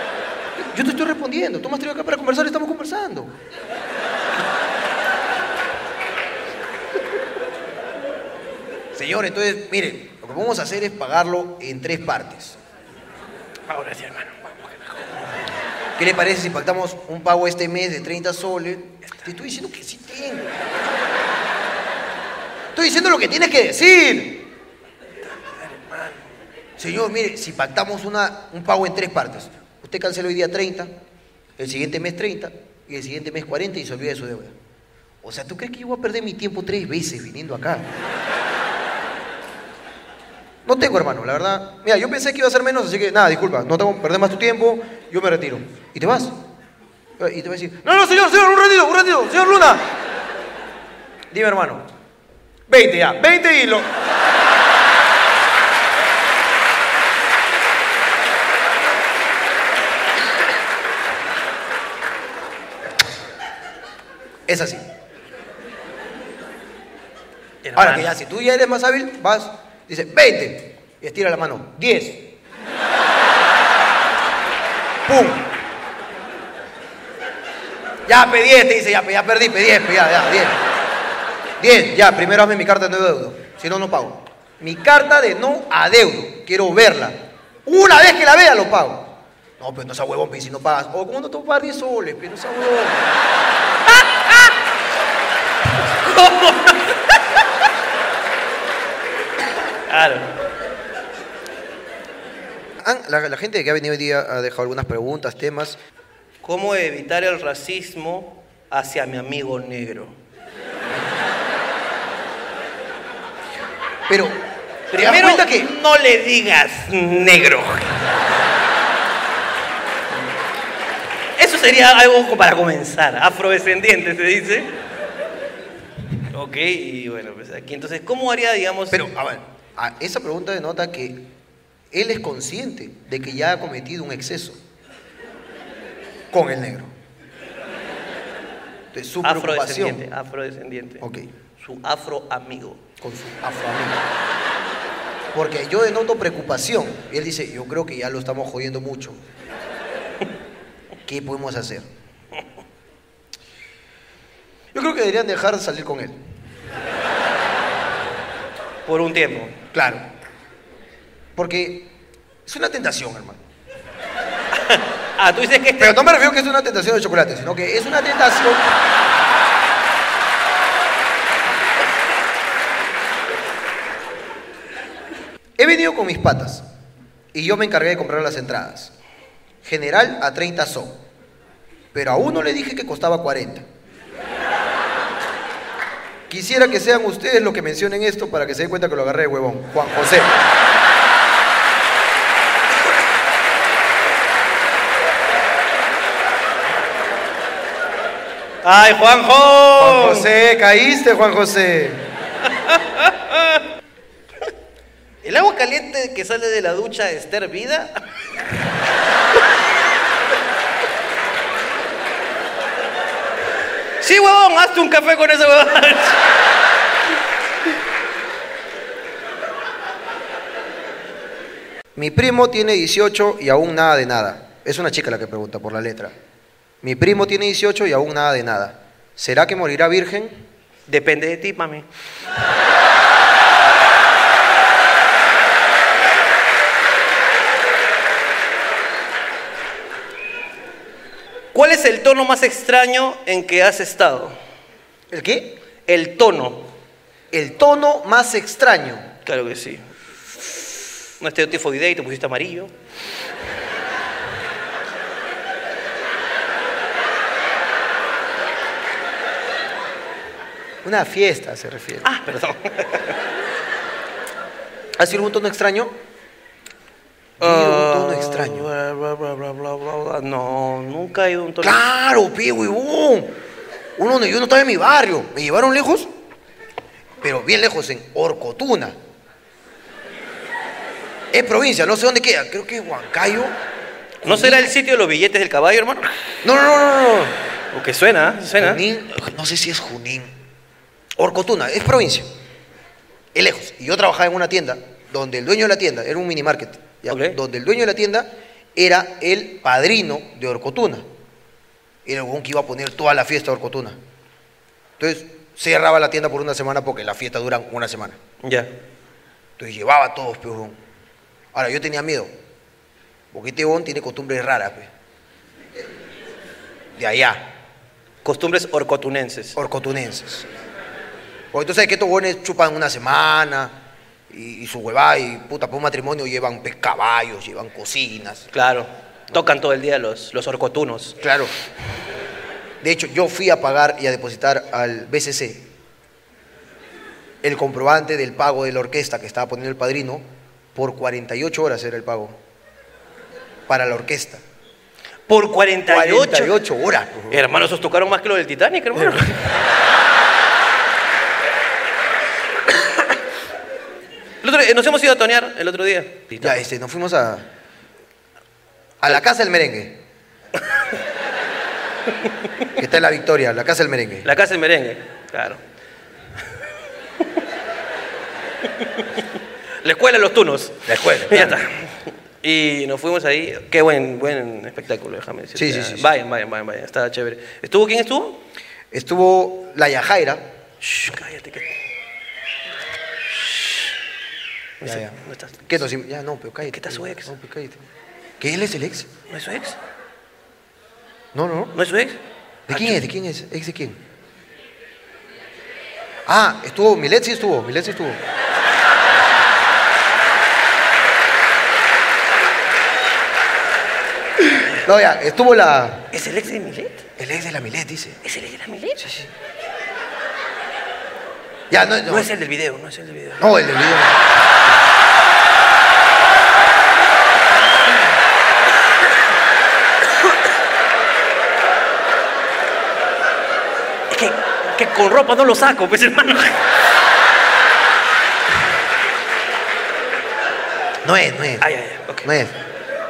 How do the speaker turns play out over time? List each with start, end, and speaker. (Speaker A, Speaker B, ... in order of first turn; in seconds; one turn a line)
Speaker A: 0.6-3.3
Speaker A: 8.9-12.6
Speaker B: 13.7-15.3
Speaker A: 16.0-20.6
Speaker A: 22.7-24.5
Speaker B: 25.4-26.2
Speaker A: 26.8-30.9
Speaker A: 31.6-34.5
Speaker A: 35.2-37.9
Speaker A: 40.6-46.4
Speaker A: 47.2-49.9
Speaker A: 51.3-51.9
Speaker A: 52.7-53.9
Speaker A: 64.5-64.8
Speaker B: 67.6-68.1
Speaker A: 67.8-72.3
Speaker A: 75.0-75.5
Speaker A: 78.1-80.6
Speaker A: 81.6-93.1
Speaker B: 93.9-94.5
Speaker B: 95.9-97.2
Speaker B: 99.9-100.3
Speaker A: 102.8-105.8
Speaker B: 106.4-110.2
Speaker A: 114.1-114.4
Speaker B: 114.9-118.0
Speaker A: 114.9-115.7
Speaker B: 121.4-124.7
Speaker B: 126.3-129.1
Speaker A: 128.9-131.2
Speaker A: 131.9-134.6
Speaker A: 136.3-136.9
Speaker A: 138.9-140.0
Speaker B: 139.2-141.0
Speaker A: 141.0-141.3
Speaker B: 141.6-142.8
Speaker A: 143.0-144.0
Speaker A: 145.3-149.2
Speaker A: 151.1-151.9
Speaker A: 154.7-156.2
Speaker B: 158.8-159.6
Speaker A: 159.7-160.0
Speaker A: 161.3-161.9
Speaker A: 162.4-163.4
Speaker B: 164.5-166.0
Speaker A: 165.8-168.7
Speaker A: 175.6-176.6
Speaker A: 177.3-178.9
Speaker A: 179.6-181.0
Speaker A: 181.9-183.7
Speaker A: 186.3-190.4
Speaker B: 198.6-200.3
Speaker A: 199.8-202.0
Speaker B: 202.4-203.6
Speaker B: 205.2-208.0
Speaker B: 214.0-216.2
Speaker A: 221.9-226.1
Speaker A: 226.8-230.4
Speaker B: 230.9-231.9
Speaker B: 241.5-244.3
Speaker A: 245.1-245.6
Speaker B: 245.8-246.7
Speaker A: 247.3-249.1
Speaker B: 249.2-249.8
Speaker B: 251.2-252.7
Speaker A: 260.8-262.0
Speaker B: 262.0-263.2
Speaker A: 265.0-265.9
Speaker A: 267.4-268.7
Speaker B: 267.4-271.8
Speaker A: 271.6-273.3
Speaker A: 273.9-276.1
Speaker A: 277.2-279.0
Speaker A: 281.3-283.5
Speaker A: 284.2-284.7
Speaker B: 284.2-286.1
Speaker A: 286.4-287.4
Speaker B: 287.7-288.8
Speaker A: 288.5-290.3
Speaker A: 291.2-292.3
Speaker A: 293.3-301.0
Speaker B: 297.1-297.4
Speaker A: 302.0-304.0
Speaker A: 305.0-308.2
Speaker B: 308.4-308.7
Speaker A: 309.6-310.8
Speaker A: 311.5-312.3
Speaker A: 313.3-314.9
Speaker A: 317.0-317.4
Speaker B: 318.2-319.6
Speaker A: 319.6-320.5
Speaker A: 321.5-323.8
Speaker A: 324.3-328.5
Speaker B: 328.5-331.2
Speaker A: 331.2-331.5
Speaker A: 332.8-335.7
Speaker A: 337.4-342.4
Speaker A: 343.7-344.4
Speaker B: 345.3-346.6
Speaker A: 345.9-347.4
Speaker B: 347.3-349.5
Speaker B: 354.4-356.5
Speaker A: 356.4-357.4
Speaker A: 359.0-360.0
Speaker A: 362.8-364.3
Speaker B: 364.2-365.6
Speaker B: 368.8-369.2
Speaker B: 369.8-378.4
Speaker A: 370.9-371.6
Speaker A: 375.6-376.1
Speaker A: 378.9-380.4
Speaker B: 380.8-381.8
Speaker B: 383.4-383.9
Speaker B: 384.8-385.7
Speaker A: 384.8-387.8
Speaker B: 386.6-387.3
Speaker A: 388.4-389.1
Speaker B: 389.3-389.8
Speaker A: 391.3-391.8
Speaker B: 391.7-392.2
Speaker A: 392.7-394.0
Speaker B: 392.7-393.0
Speaker A: 396.2-398.2
Speaker A: 404.8-406.1
Speaker B: 406.1-407.1
Speaker A: 407.2-408.2
Speaker B: 408.2-409.1
Speaker A: 409.0-409.3
Speaker A: 411.7-412.3
Speaker B: 412.1-413.4
Speaker A: 413.4-414.2
Speaker B: 424.1-426.6
Speaker A: 431.0-431.6
Speaker B: 431.6-432.3
Speaker A: 432.2-432.5